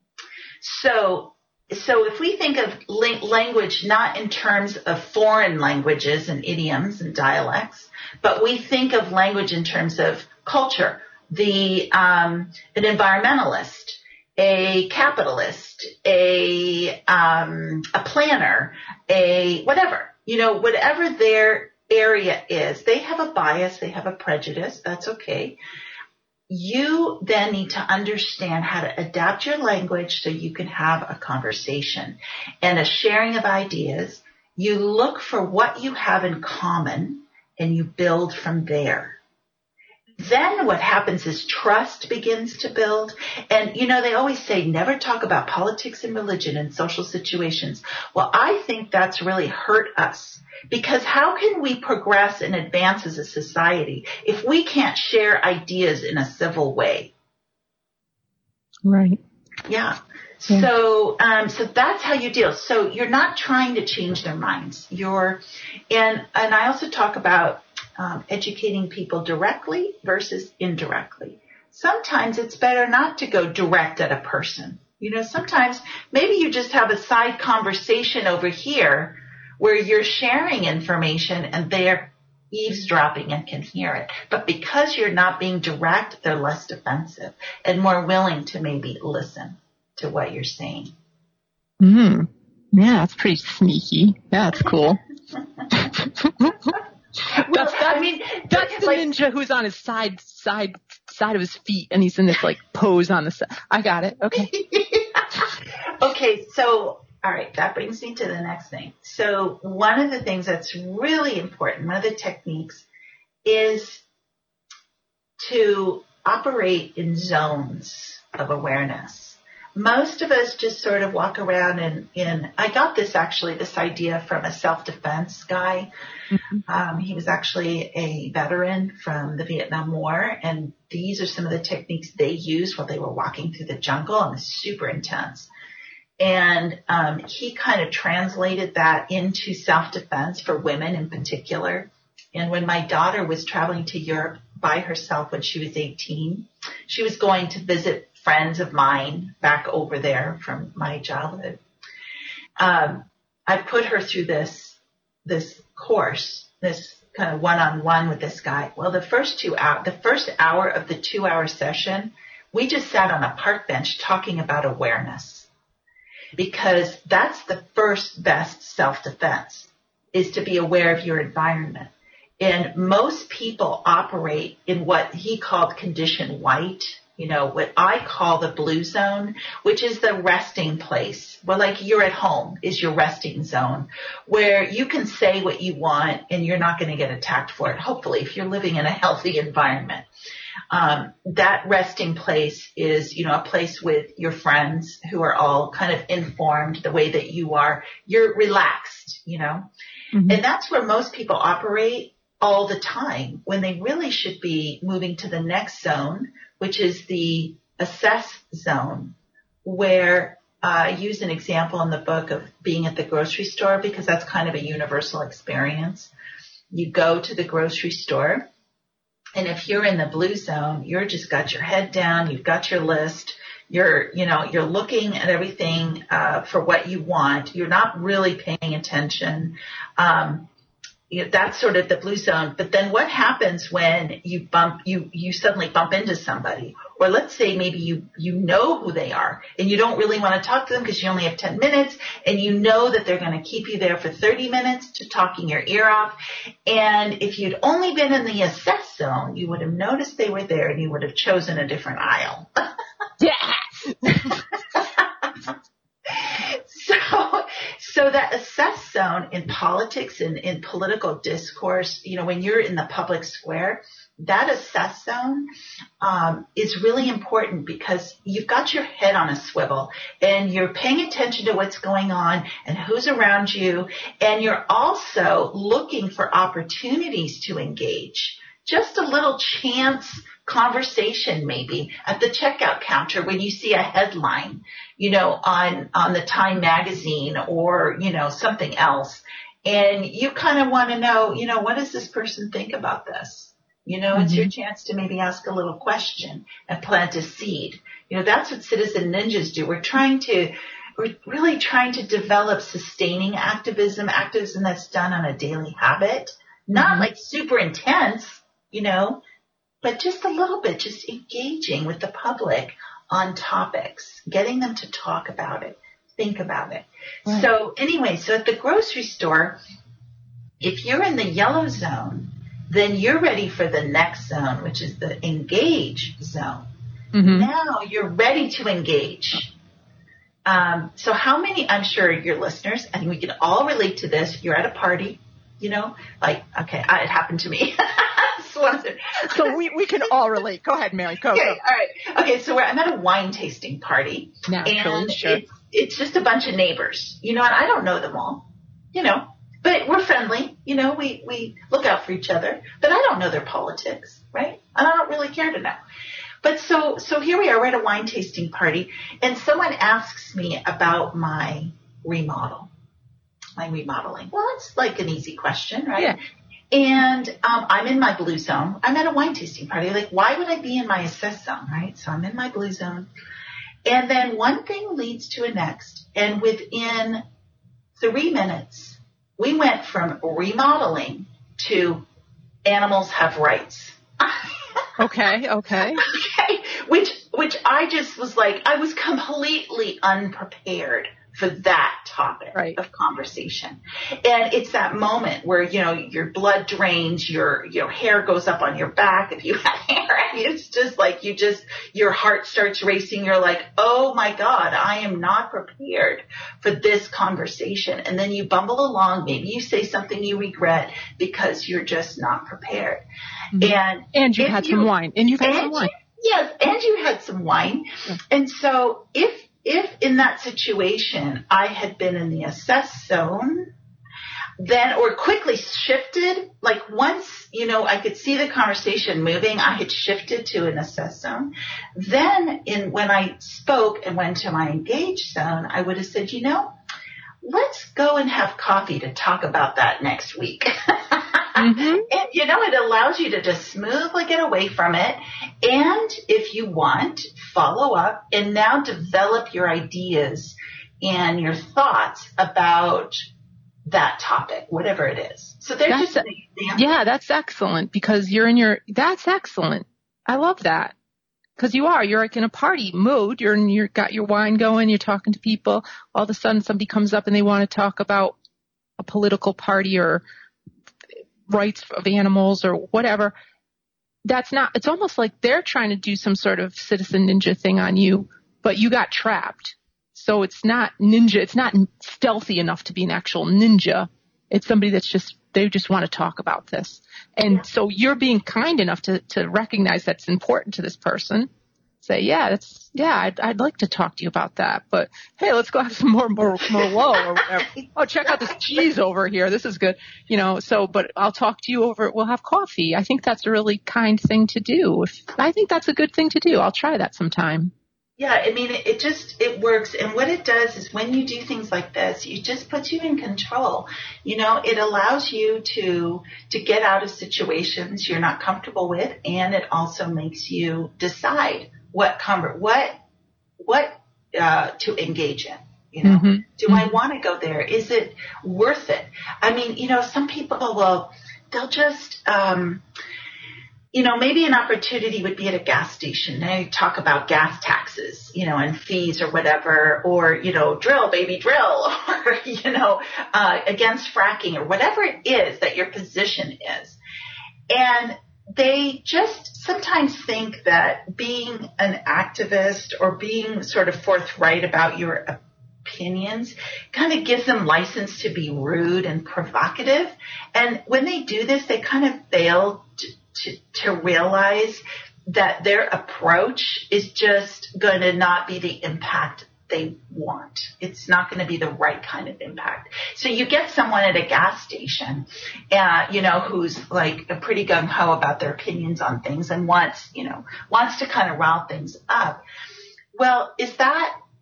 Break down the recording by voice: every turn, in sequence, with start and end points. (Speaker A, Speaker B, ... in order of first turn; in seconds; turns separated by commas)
Speaker A: 0.6-25.6, Speaker A: 26.5-39.2, Speaker A: 40.2-57.1, Speaker B: 58.8-59.2, Speaker A: 59.7-90.9, Speaker B: 91.8-95.0, Speaker B: 95.7-96.7, Speaker A: 97.3-99.0, Speaker B: 97.5-104.5, Speaker A: 104.3-112.9, Speaker A: 113.4-114.0, Speaker A: 115.4-125.9, Speaker B: 126.3-126.6, Speaker A: 126.7-135.5, Speaker A: 136.2-151.6, Speaker A: 152.6-165.5, Speaker A: 166.4-190.1, Speaker A: 190.7-199.7, Speaker B: 200.1-200.4, Speaker A: 200.3-216.1, Speaker A: 216.7-218.5, Speaker A: 219.3-230.5, Speaker A: 231.1-252.5, Speaker B: 253.2-254.4, Speaker A: 256.1-265.5, Speaker A: 266.0-309.2, Speaker B: 294.1-294.5, Speaker B: 306.7-307.1, Speaker A: 309.8-319.6, Speaker A: 320.6-326.6, Speaker B: 327.1-327.5, Speaker A: 327.2-329.5, Speaker A: 330.4-339.6, Speaker B: 339.2-341.6, Speaker A: 341.3-355.8, Speaker B: 344.5-345.4, Speaker A: 356.4-362.7, Speaker A: 363.6-366.2, Speaker A: 366.7-373.1, Speaker A: 373.9-377.2, Speaker A: 378.0-382.1, Speaker A: 382.6-384.4, Speaker B: 385.0-386.0, Speaker A: 386.0-413.0, Speaker B: 413.5-415.9, Speaker A: 413.6-423.7, Speaker A: 424.6-436.7, Speaker A: 437.4-453.3, Speaker B: 441.6-442.1, Speaker A: 453.9-456.8, Speaker B: 455.9-460.9, Speaker B: 461.6-468.4, Speaker B: 469.0-470.2, Speaker B: 471.5-473.3, Speaker B: 474.2-491.5, Speaker B: 492.0-507.7, Speaker A: 497.7-498.8, Speaker A: 508.2-523.0, Speaker A: 523.6-532.8, Speaker B: 526.0-526.9, Speaker A: 533.9-547.0, Speaker A: 547.7-582.4, Speaker A: 583.1-584.1